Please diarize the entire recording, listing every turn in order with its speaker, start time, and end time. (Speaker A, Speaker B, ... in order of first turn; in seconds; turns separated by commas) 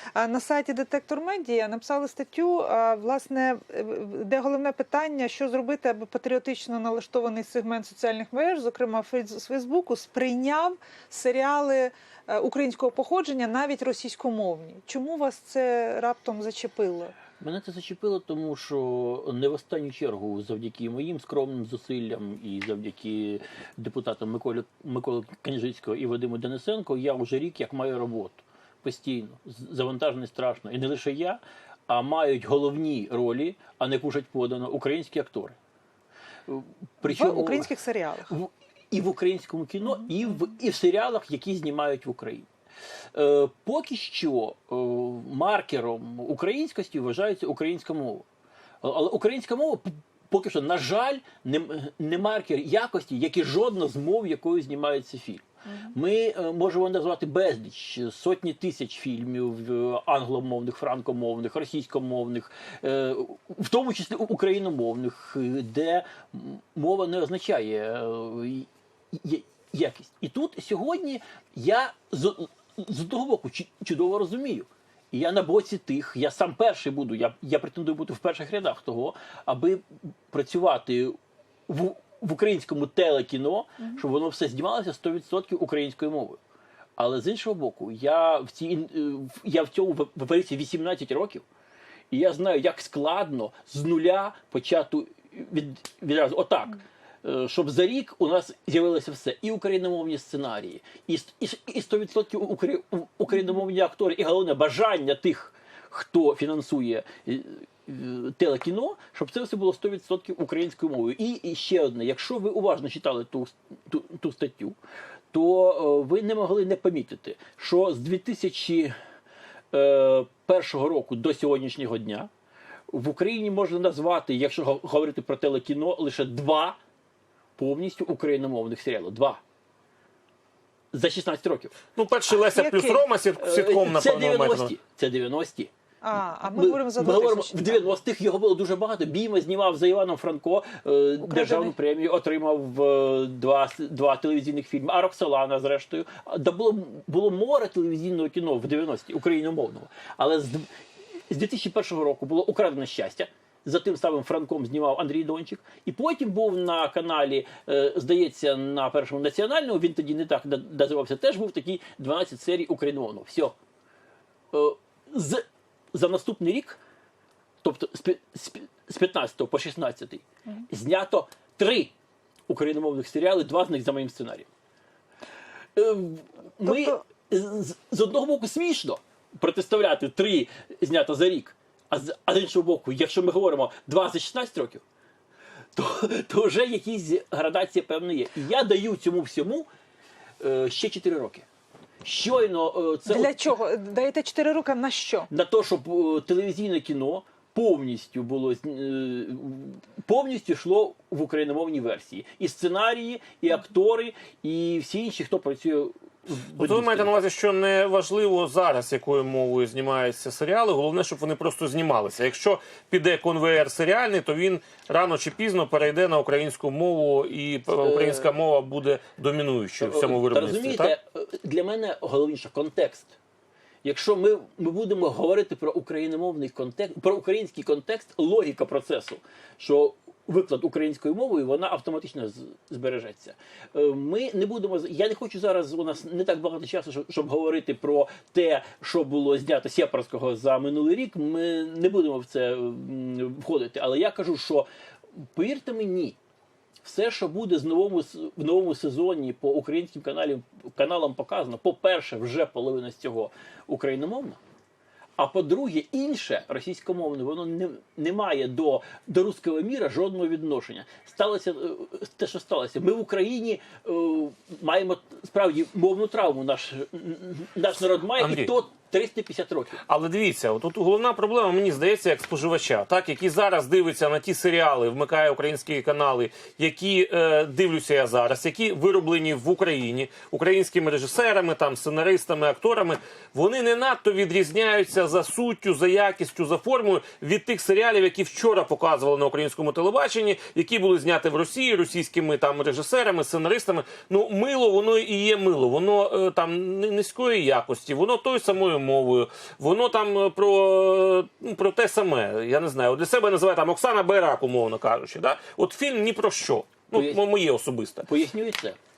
Speaker A: 0.1-17.1, Speaker B: 17.4-35.6, Speaker B: 36.5-37.7, Speaker A: 37.0-38.3, Speaker B: 38.3-42.5, Speaker B: 43.1-48.2, Speaker B: 48.8-81.2, Speaker B: 81.7-86.4, Speaker B: 87.0-91.5, Speaker B: 92.1-114.8, Speaker B: 115.3-118.9, Speaker B: 119.7-122.3, Speaker B: 122.9-126.8, Speaker B: 127.6-129.4, Speaker B: 130.9-131.8, Speaker C: 132.0-134.7, Speaker A: 132.5-133.0, Speaker B: 133.4-135.7, Speaker A: 136.0-137.8, Speaker B: 136.5-150.7, Speaker A: 141.2-141.7, Speaker B: 151.3-163.6, Speaker B: 164.5-166.8, Speaker B: 167.6-171.9, Speaker B: 172.5-174.5, Speaker B: 175.8-184.8, Speaker A: 176.7-177.0, Speaker B: 185.8-189.7, Speaker B: 190.4-191.5, Speaker B: 192.0-193.4, Speaker A: 193.1-195.3, Speaker B: 195.3-207.1, Speaker C: 206.6-220.9, Speaker B: 217.8-218.3, Speaker B: 219.8-223.2, Speaker B: 223.8-244.7, Speaker B: 245.3-246.2, Speaker B: 246.8-254.4, Speaker B: 255.2-269.8, Speaker C: 268.1-268.5, Speaker C: 269.8-308.1, Speaker B: 306.9-307.2, Speaker B: 308.1-308.8